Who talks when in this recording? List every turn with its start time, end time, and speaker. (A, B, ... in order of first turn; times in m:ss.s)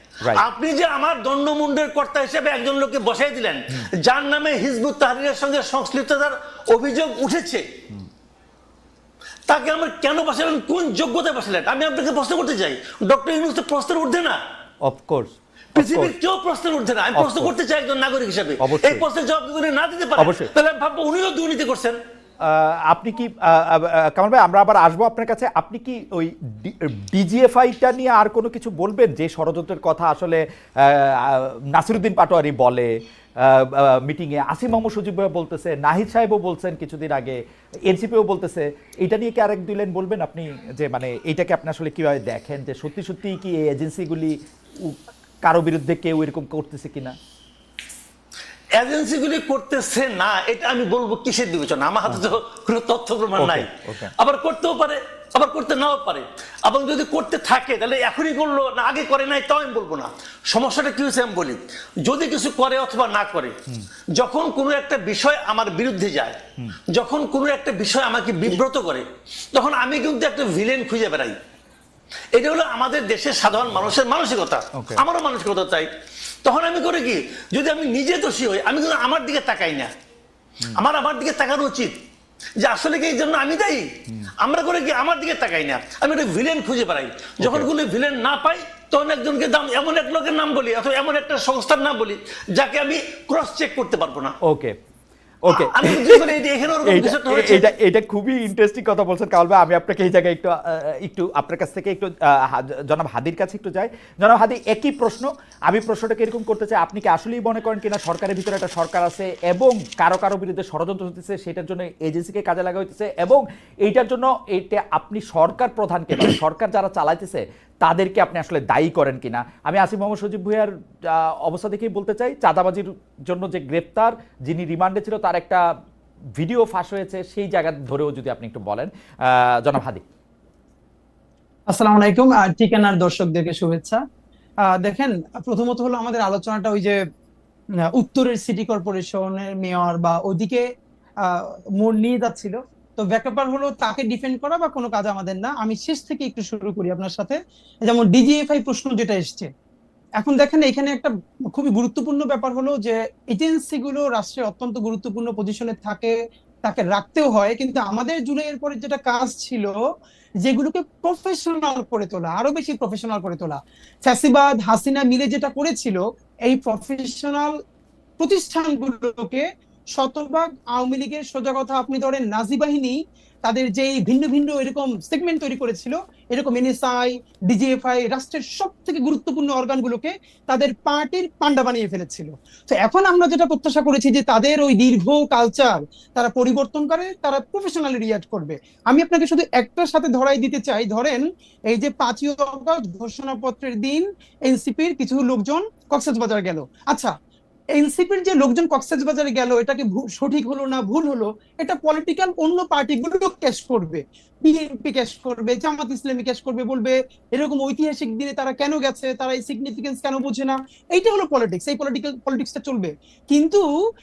0:00.3-0:07.6 A
0:09.5-0:14.4 A
0:14.8-0:16.1 B
0:15.7-0:22.0 A
0:17.1-0:17.5 B
0:18.6-0:19.0 B
0:20.2-0:20.5 B
0:22.4-0:47.2 B
0:48.8-1:03.6 A
0:52.1-0:52.3 B
0:53.4-0:54.1 B
1:04.1-1:11.4 A
1:12.3-1:15.9 A
1:14.7-1:15.0 B
1:16.4-1:19.9 A
1:20.7-1:21.9 A
1:22.6-1:34.3 A
1:27.4-1:27.7 B
1:34.4-1:34.7 B
1:35.4-1:36.3 B
1:35.5-1:37.7 A
1:36.8-2:05.6 B
2:06.4-2:10.0 B
2:11.7-2:14.0 C
2:14.6-2:17.0 C
2:17.9-2:20.6 C
2:21.2-2:29.5 C
2:30.2-2:36.1 C
2:36.6-2:39.8 C
2:40.4-2:47.5 C
2:48.2-2:49.4 C
2:50.0-3:17.1 C
3:17.8-3:33.6 C